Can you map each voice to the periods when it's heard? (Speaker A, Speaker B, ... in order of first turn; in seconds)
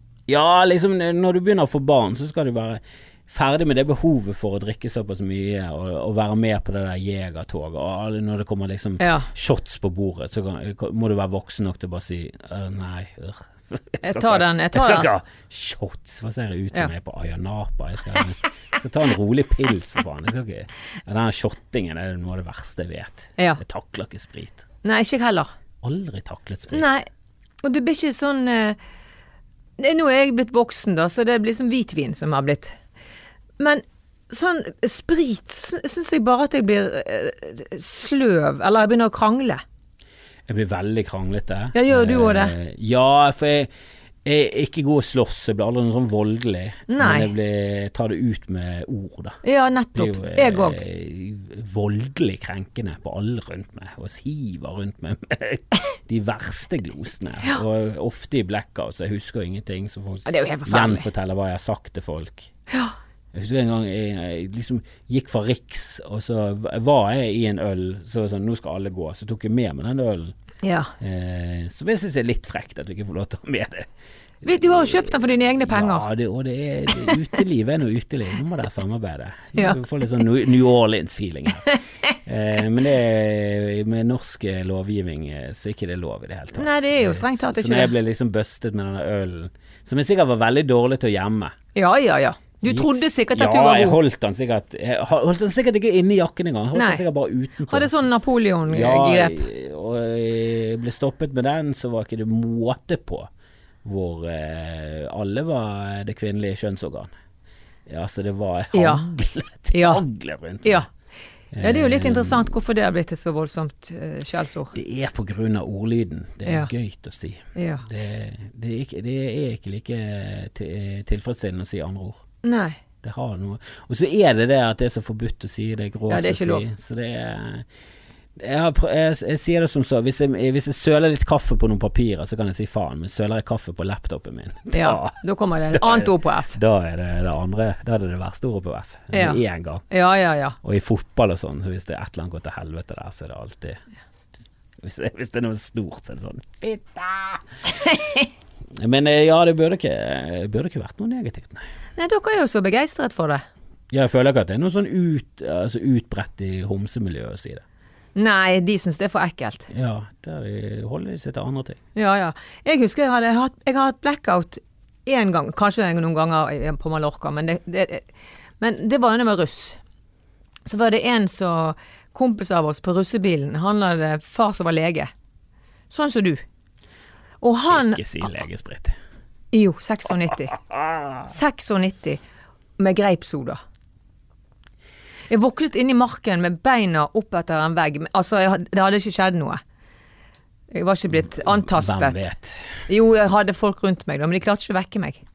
Speaker A: 0.3-24.6, 25.8-26.9, 40.5-43.7, 44.2-49.4, 50.0-62.5, 63.3-70.3, 71.0-73.9, 74.4-81.7, 82.2-91.5, 92.7-98.0, 98.7-103.3, 103.8-107.1, 107.9-110.8, 111.5-112.5, 114.7-122.2, 123.0-127.7, 128.4-135.2, 135.7-139.9, 140.6-143.8, 144.8-147.4, 148.8-151.6, 153.9-157.6, 159.7-161.8, 177.7-179.0, 180.7-181.2, 191.2-192.7
Speaker B: 9.0-9.3, 14.0-15.1, 24.8-25.5, 26.7-27.1, 27.6-28.8, 29.8-32.8, 33.6-39.6, 41.7-42.5, 46.9-47.3, 49.4-50.8, 60.3-61.1, 62.7-63.0, 70.6-70.9, 74.4-76.1, 86.5-87.9, 91.8-94.0, 96.8-97.0, 97.7-99.4, 108.7-109.1, 109.7-110.0, 111.6-114.7, 117.5-117.8, 122.4-122.8, 126.1-126.7, 134.7-136.6, 139.1-140.6, 152.0-153.4, 158.2-159.7, 162.0-168.1, 168.6-169.8, 170.7-175.1, 175.9-176.4, 177.4-178.1, 179.5-180.6, 181.2-182.2, 182.8-183.6, 185.3-189.6, 190.7-192.3, 192.9-195.2